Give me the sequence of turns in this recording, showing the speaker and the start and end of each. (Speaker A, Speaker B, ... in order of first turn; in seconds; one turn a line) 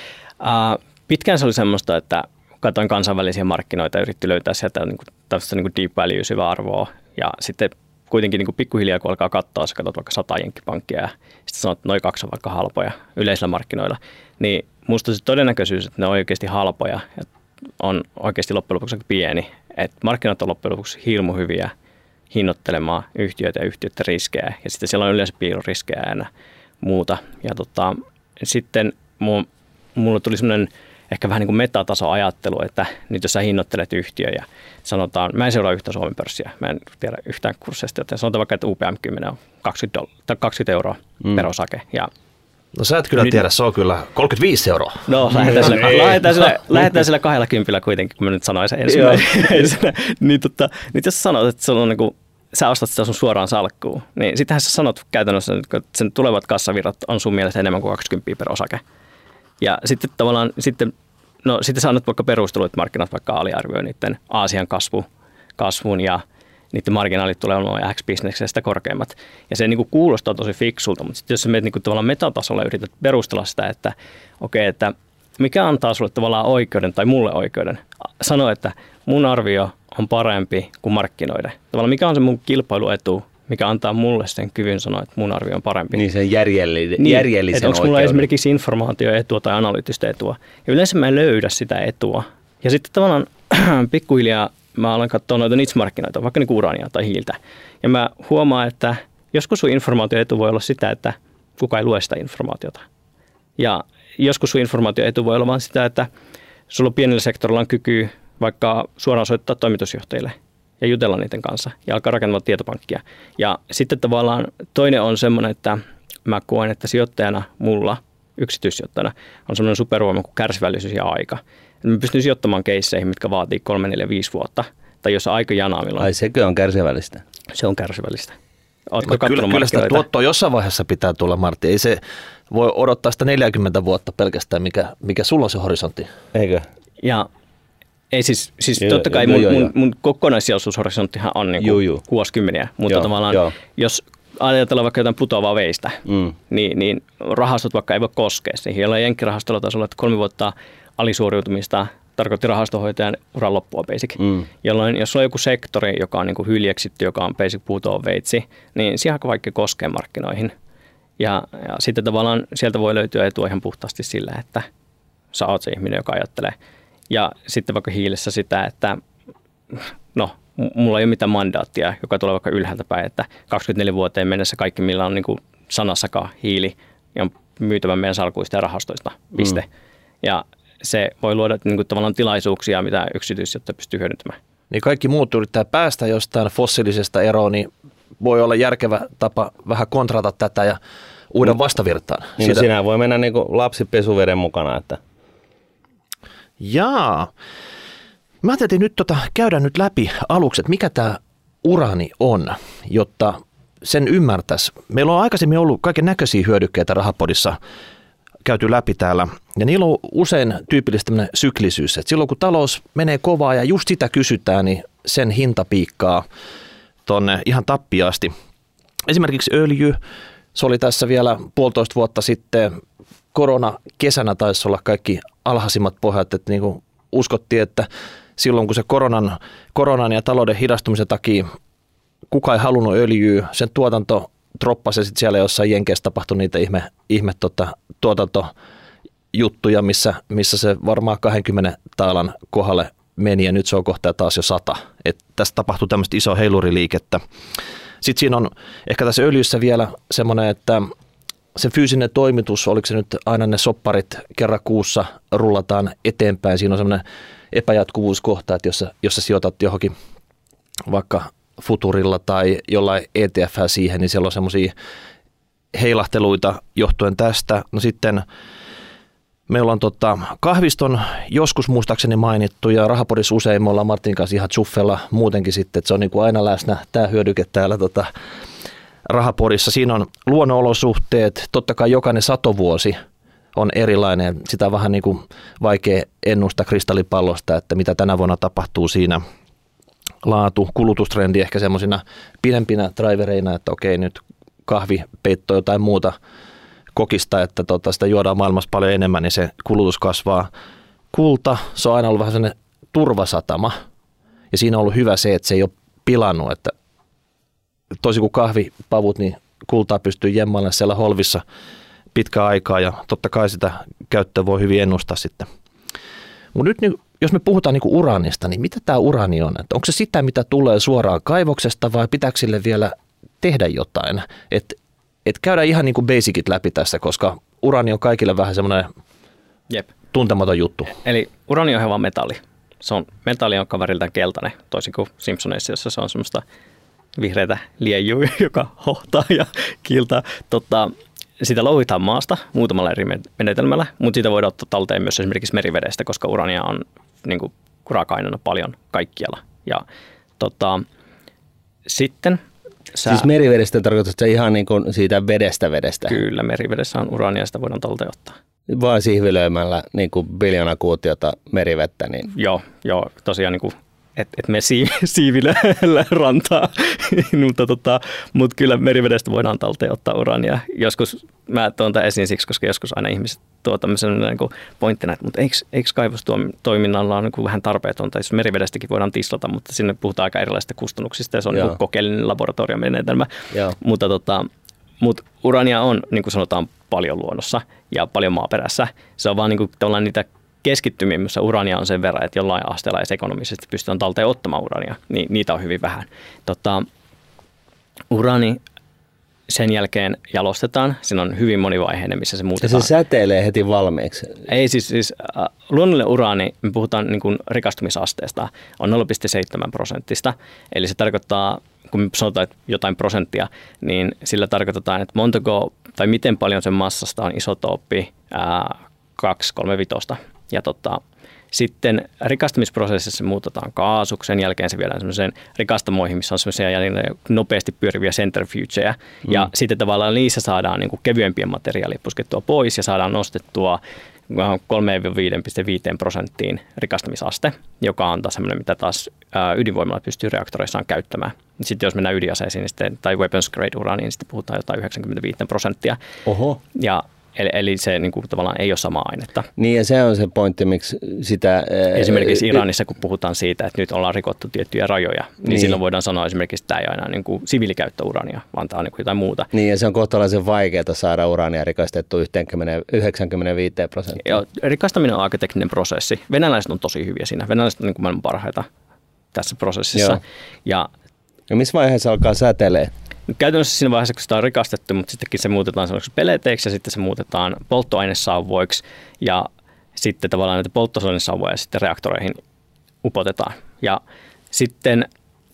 Speaker A: 0.4-17.3
Speaker A: 17.8-21.7
Speaker A: 22.3-26.3
Speaker A: 26.8-42.1
Speaker B: 42.7-45.7
Speaker A: 45.1-58.8
Speaker C: 45.6-45.9
Speaker C: 48.9-49.6
Speaker A: 59.6-60.9
Speaker A: 61.4-86.0
Speaker C: 85.9-88.2
Speaker A: 87.0-102.8
Speaker A: 103.6-106.1
Speaker A: 106.7-126.1
Speaker C: 126.0-127.2
Speaker A: 127.5-128.4
Speaker A: 128.9-130.0
Speaker B: 129.0-136.1
Speaker C: 136.3-136.7
Speaker A: 137.0-137.3
Speaker A: 138.1-160.5
Speaker C: 138.8-139.7
Speaker C: 141.6-142.0
Speaker C: 142.9-143.5
Speaker C: 146.1-146.3
Speaker C: 154.2-154.4
Speaker A: 161.2-164.7
Speaker A: 165.3-166.5
Speaker A: 167.1-169.0
Speaker A: 169.7-179.7
Speaker A: 180.2-184.4
Speaker B: 184.7-190.8
Speaker B: 191.3-192.7
Speaker C: 192.4-195.0
Speaker B: 196.6-197.3
Speaker B: 198.4-207.6
Speaker B: 208.4-216.2
Speaker B: 217.0-218.3
Speaker B: 219.1-220.0
Speaker B: 220.5-222.7
Speaker B: 223.3-231.4
Speaker B: 232.3-238.5
Speaker B: 239.3-247.2
Speaker B: 248.0-250.9
Speaker B: 251.5-259.9
Speaker B: 260.9-264.7
Speaker B: 265.7-268.2
Speaker B: 269.5-278.1
Speaker B: 279.1-283.0
Speaker B: 283.5-289.2
Speaker B: 290.2-296.1
Speaker B: 296.9-300.5
Speaker B: 301.1-303.7
Speaker B: 304.5-306.7
Speaker B: 308.0-311.4
Speaker B: 312.1-315.5
Speaker B: 316.5-328.9
Speaker B: 330.1-330.9
Speaker A: 331.0-336.4
Speaker A: 337.2-349.8
Speaker A: 350.4-350.8
Speaker A: 351.9-352.4
Speaker A: 352.9-353.3
Speaker C: 353.1-356.2
Speaker A: 356.1-358.4
Speaker C: 358.7-362.3
Speaker A: 362.3-384.5
Speaker A: 385.0-396.9
Speaker A: 398.1-398.6
Speaker A: 399.5-402.9
Speaker C: 402.6-404.4
Speaker A: 404.5-421.0
Speaker A: 421.5-446.0
Speaker C: 446.2-446.6
Speaker A: 446.7-449.5
Speaker C: 449.6-452.6
Speaker A: 451.9-459.5
Speaker C: 455.5-455.8
Speaker C: 459.5-464.4
Speaker A: 464.2-468.7
Speaker A: 469.3-470.9
Speaker C: 471.5-472.9
Speaker A: 473.3-482.4
Speaker A: 483.0-484.0
Speaker A: 484.5-485.1